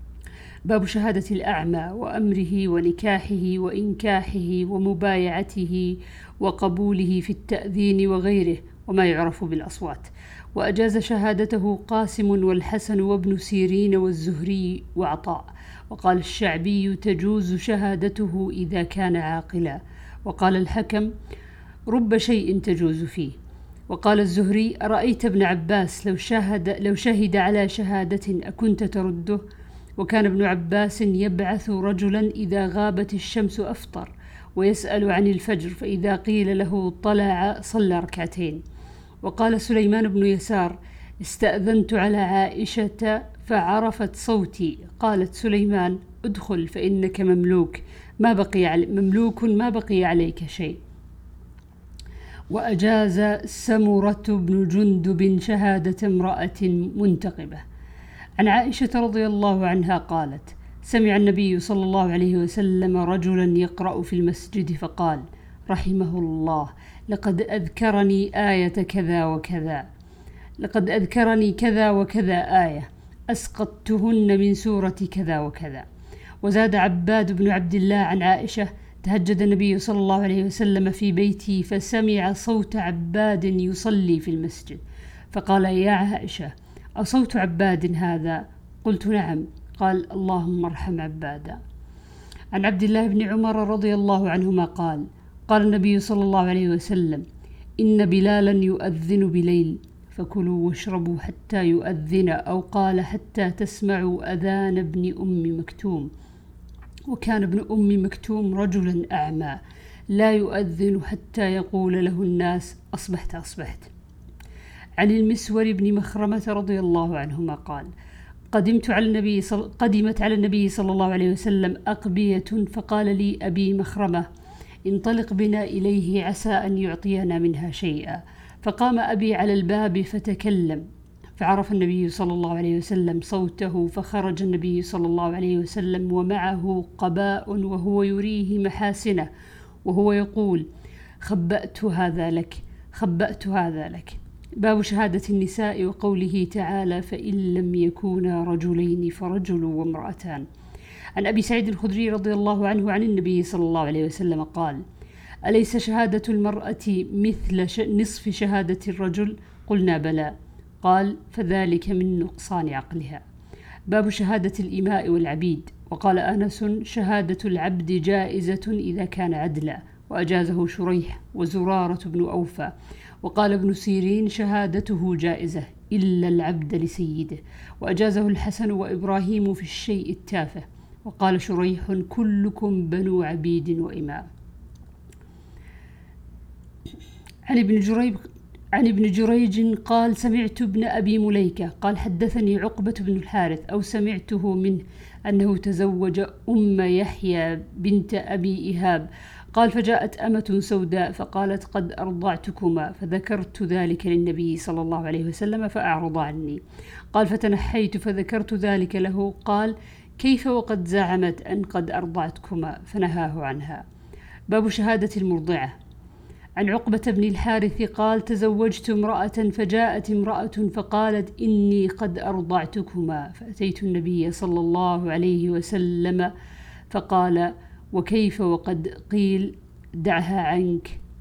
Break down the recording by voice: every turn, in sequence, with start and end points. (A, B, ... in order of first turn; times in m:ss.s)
0:00.6-0:21.1 A
0:21.9-0:23.4 A
0:23.9-0:29.4 A
0:30.0-0:38.6 A
0:39.2-0:50.8 A
0:52.5-0:57.6 A
0:58.4-1:09.8 A
1:10.6-1:15.8 A
1:16.4-1:31.6 A
1:32.5-1:37.2 A
1:37.8-1:46.1 A
1:47.1-1:49.6 A
1:50.1-1:53.9 A
1:55.0-1:57.9 A
1:58.5-2:04.2 A
2:04.8-2:10.8 A
2:11.4-2:19.3 A
2:19.8-2:20.6 A
2:21.2-2:30.4 A
2:31.2-2:34.8 A
2:35.4-2:43.2 A
2:43.9-3:04.2 A
3:07.5-3:08.2 A
3:08.7-3:26.6 A
3:27.1-3:33.8 A
3:34.5-3:35.7 A
3:36.6-3:46.3 A
3:46.9-3:51.0 A